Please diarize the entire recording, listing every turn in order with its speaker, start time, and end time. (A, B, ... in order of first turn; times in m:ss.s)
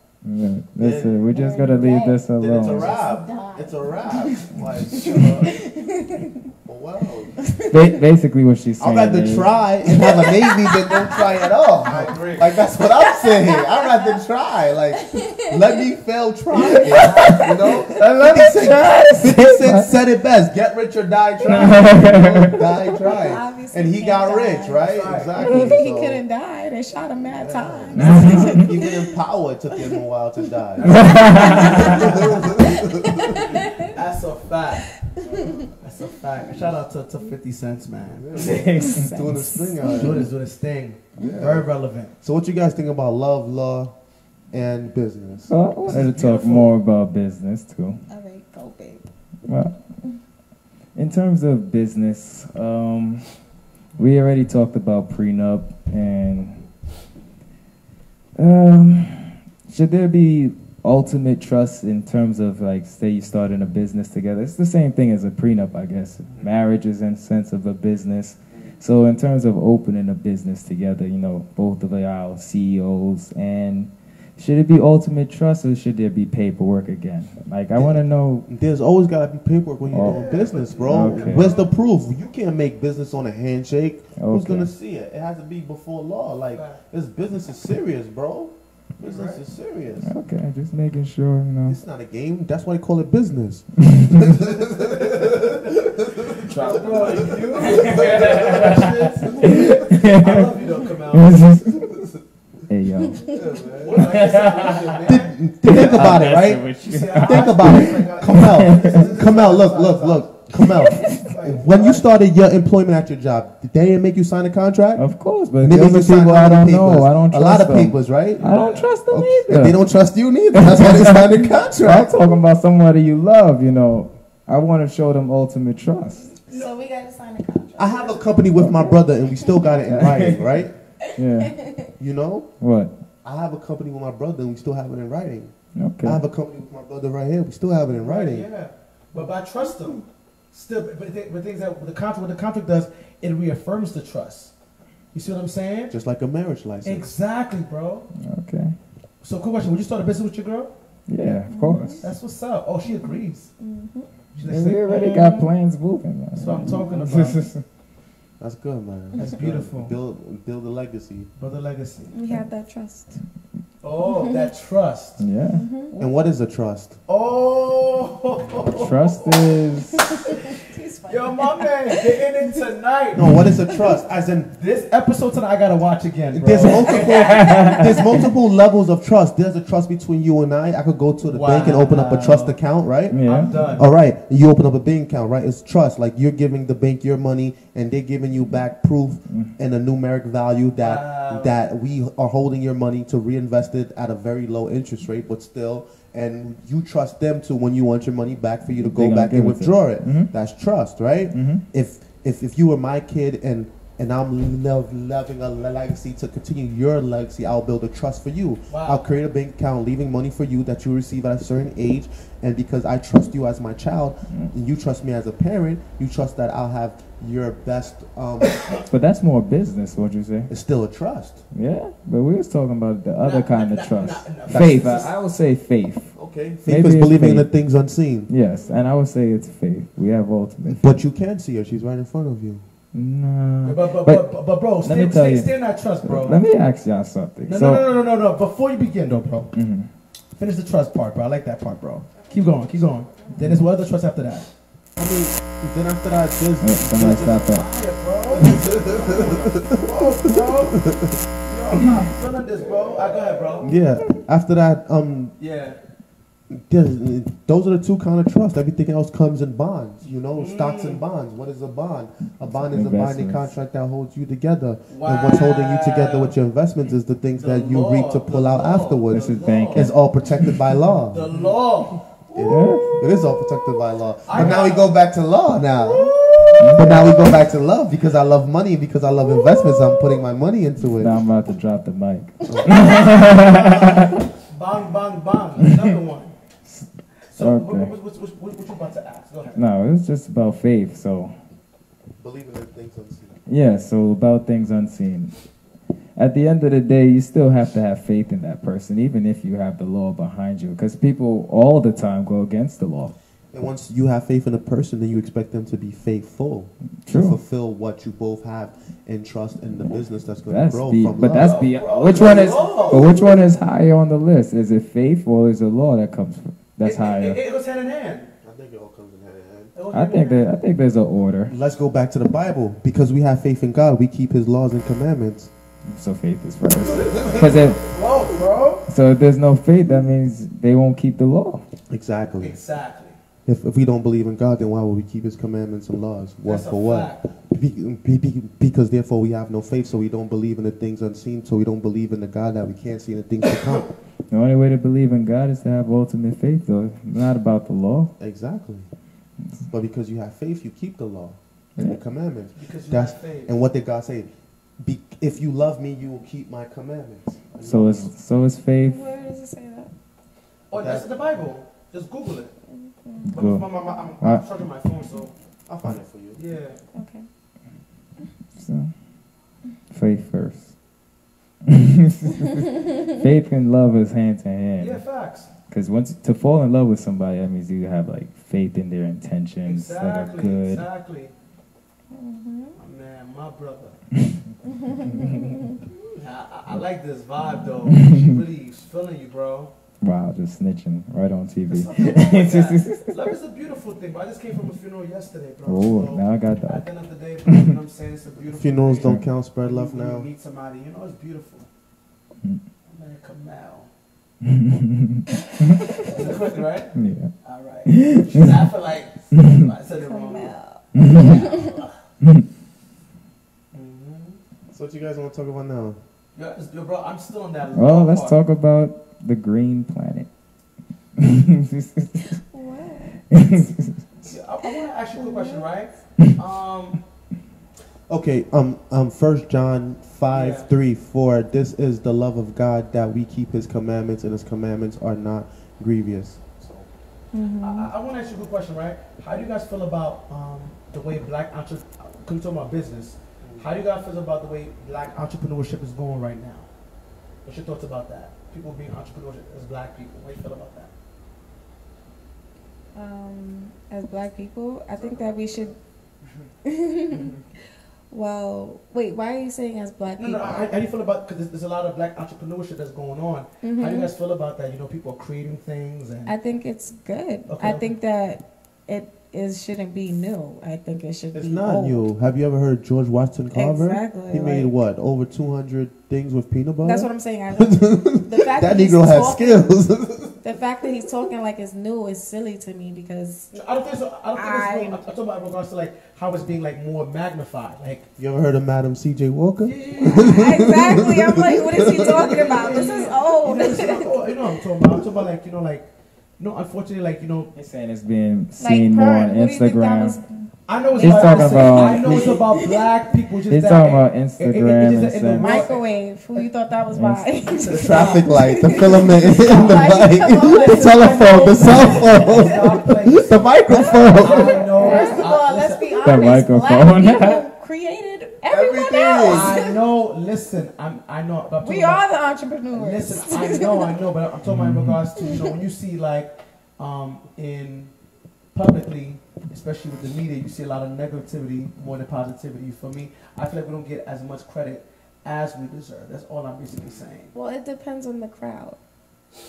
0:00.2-0:02.9 A
0:00.8-0:01.2 B
0:01.3-0:06.5 C
0:02.4-0:05.5 B
0:06.6-0:07.4 B
0:07.4-0:07.9 C
0:07.7-0:09.6 A
0:08.8-0:26.2 B
0:09.9-0:11.2 C
0:11.9-0:12.4 D
0:12.8-0:14.1 C
0:15.0-0:15.6 C
0:16.6-0:19.9 A
0:16.7-0:17.5 C
0:21.4-0:22.8 A
0:23.0-0:29.2 C
0:24.8-0:25.5 D
0:27.2-0:33.6 B
0:28.0-0:28.7 A
0:30.8-0:32.5 D
0:30.8-0:32.2 A
0:31.1-0:33.9 C
0:33.7-0:38.8 D
0:35.0-0:35.6 C
0:38.1-0:40.3 B
0:38.4-0:39.5 A
0:38.8-0:40.1 C
0:39.9-0:42.1 D
0:41.2-0:41.7 B
0:42.2-0:43.9 B
0:44.5-0:46.2 B
0:45.5-0:48.0 A
0:45.9-0:46.7 D
0:48.1-0:49.1 C
0:49.4-0:49.7 A
0:50.9-0:53.3 A
0:54.0-0:56.7 A
0:58.4-1:18.5 A
1:17.7-1:30.1 B
1:19.9-1:20.2 A
1:20.0-1:21.7 D
1:20.9-1:21.5 A
1:24.2-1:24.7 A
1:26.6-1:26.8 D
1:29.0-1:29.4 D
1:30.0-1:31.8 A
1:31.7-1:39.8 B
1:33.9-1:34.4 A
1:36.4-1:41.9 A
1:36.5-1:41.4 D
1:42.7-1:43.4 A
1:43.0-1:43.4 C
1:43.3-1:44.3 B
1:43.8-1:50.4 D
1:43.9-1:49.0 A
1:45.0-1:55.1 B
1:51.0-1:52.0 D
1:55.0-1:59.8 A
1:55.6-2:02.1 B
1:58.4-1:58.9 D
2:00.5-2:06.3 A
2:06.5-2:08.3 C
2:07.8-2:10.7 B
2:08.6-2:08.9 A
2:09.9-2:10.5 A
2:11.0-2:11.9 C
2:11.2-2:11.6 A
2:12.0-2:12.5 B
2:12.6-2:12.9 A
2:13.2-2:18.5 B
2:15.7-2:16.2 A
2:18.0-2:24.5 D
2:19.6-2:20.0 C
2:25.1-2:25.9 D
2:25.9-2:27.1 B
2:26.8-2:28.1 D
2:28.2-2:28.8 A
2:29.2-2:30.7 D
2:31.1-2:32.0 A
2:31.5-2:32.1 C
2:32.0-2:33.5 D
2:32.9-2:34.1 C
2:34.4-2:35.4 D
2:34.4-2:37.6 A
2:34.9-2:35.5 C
2:36.4-2:37.4 D
2:36.6-2:37.0 C
2:38.4-2:41.3 B
2:39.2-2:39.9 D
2:41.4-2:42.2 D
2:42.1-2:43.2 C
2:43.8-2:45.2 D
2:44.0-2:44.4 C
2:45.2-2:45.6 A
2:45.6-2:46.0 C
2:46.0-2:47.0 B
2:47.1-2:50.5 D
2:48.6-2:50.3 A
2:50.0-2:52.6 C
2:51.1-2:53.5 D
2:53.1-2:54.5 B
2:54.5-2:57.2 D
2:56.3-3:38.7 B
2:57.1-2:58.1 A
2:57.4-2:57.8 C
3:01.2-3:02.6 D
3:03.1-3:03.8 A
3:03.2-3:03.9 D
3:10.8-3:11.6 D
3:18.8-3:20.3 A
3:21.3-3:21.6 A
3:28.7-3:29.0 D
3:38.9-3:40.5 A
3:40.5-3:41.4 B
3:41.5-3:46.1 A
3:43.2-3:45.1 D
3:46.2-3:48.3 B
3:46.6-3:47.5 A
3:48.3-3:50.9 A
3:50.7-3:52.6 B
3:52.9-3:54.3 A
3:53.6-3:56.4 D
3:54.8-3:55.5 A
3:56.0-3:57.9 A
3:57.5-3:59.5 D
3:59.5-3:59.9 A
4:00.3-4:04.5 D
4:02.2-4:03.4 C
4:05.0-4:07.6 B
4:06.6-4:07.7 A
4:07.1-4:10.9 D
4:08.4-4:11.2 B
4:11.4-4:13.7 D
4:13.6-4:15.3 B
4:15.4-4:15.8 D
4:16.5-4:31.3 B
4:20.3-4:21.0 D
4:22.5-4:23.5 A
4:24.9-4:26.4 D
4:27.4-4:29.9 D
4:29.1-4:30.7 A
4:31.1-4:32.6 D
4:32.3-4:36.2 B
4:32.4-4:33.0 A
4:34.2-4:34.9 D
4:35.8-4:37.3 D
4:36.6-4:37.2 A
4:36.7-4:41.2 B
4:39.2-4:40.1 D
4:40.9-4:44.2 A
4:42.5-4:43.0 B
4:42.7-4:46.3 D
4:47.3-4:49.6 D
4:47.4-4:47.9 A
4:49.6-4:51.3 A
4:52.2-4:53.4 B
4:53.5-4:55.3 A
4:56.2-5:03.1 A
5:03.5-5:11.6 B
5:07.0-5:07.4 A
5:10.5-5:17.4 A
5:11.3-5:13.1 D
5:12.7-5:13.5 B
5:16.8-5:18.3 D
5:18.4-5:19.7 B
5:19.7-5:20.5 D
5:19.9-5:21.5 A
5:21.5-5:25.5 B
5:25.9-5:27.8 A
5:26.8-5:28.8 D
5:28.9-5:31.6 A
5:31.9-5:32.6 B
5:32.4-5:33.2 D
5:33.4-5:43.9 B
5:36.4-5:37.2 D
5:44.3-5:48.1 A
5:48.2-5:48.9 B
5:49.7-5:54.3 B
5:52.6-5:53.5 D
5:54.8-5:58.1 B
5:57.6-5:59.1 A
5:58.9-5:59.9 C
6:00.7-6:02.5 D
6:00.7-6:01.1 B
6:02.7-6:03.4 C
6:03.3-6:05.3 D
6:03.3-6:03.6 A
6:05.7-6:06.4 B
6:06.4-6:06.8 D
6:06.9-6:07.2 C
6:08.6-6:08.9 A
6:09.9-6:10.7 A
6:11.6-6:15.0 A
6:14.8-6:15.5 D
6:15.7-6:20.8 A
6:19.6-6:21.3 D
6:22.1-6:22.8 C
6:22.8-6:24.0 D
6:24.6-6:25.8 C
6:25.1-6:25.6 A
6:26.1-6:29.7 D
6:27.4-6:28.4 A
6:30.0-6:33.2 A
6:31.7-6:41.7 D
6:35.7-6:36.9 A
6:37.5-6:37.7 A
6:38.5-6:40.3 B
6:42.9-6:43.9 D
6:44.4-6:46.3 A
6:45.9-6:51.9 D
6:46.9-6:47.3 A
6:47.9-6:48.6 A
6:49.3-6:49.7 A
6:49.9-6:51.8 C
6:50.9-6:51.4 A
6:53.7-6:54.4 D
6:54.7-6:56.0 B
6:56.3-6:58.4 D
6:57.7-7:00.3 A
7:01.2-7:02.4 A
7:02.2-7:03.2 C
7:03.3-7:04.0 A
7:04.2-7:07.0 D
7:04.6-7:05.7 C
7:08.1-7:16.9 B
7:10.3-7:10.7 D
7:17.3-7:17.9 C
7:17.6-7:26.7 D
7:27.4-7:30.9 D
7:32.9-7:35.7 C
7:35.0-7:35.6 D
7:36.6-7:37.4 C
7:38.1-7:40.7 C
7:40.2-7:46.3 D
7:43.6-7:44.1 C
7:46.2-7:52.0 C
7:47.5-7:47.9 D
7:51.3-8:00.4 B
7:53.5-7:54.7 C
7:56.8-7:59.8 C
8:00.4-8:03.5 C
8:03.5-8:08.0 D
8:04.3-8:05.0 C
8:08.2-8:12.4 B
8:09.6-8:10.6 D
8:10.0-8:14.3 C
8:12.0-8:15.9 D
8:16.4-8:17.5 D
8:17.6-8:20.2 A
8:18.6-8:22.9 C
8:20.7-8:25.8 D
8:21.0-8:22.4 A
8:23.5-8:25.7 A
8:25.4-8:32.7 C
8:26.9-8:27.3 A
8:27.5-8:29.8 D
8:27.7-8:35.1 B
8:30.4-8:36.0 D
8:33.7-8:39.8 C
8:36.0-8:37.4 A
8:38.5-8:39.6 B
8:39.2-8:42.0 D
8:41.6-8:44.0 C
8:42.7-8:47.9 D
8:44.4-8:45.0 A
8:48.5-8:57.3 D
8:57.3-8:58.8 C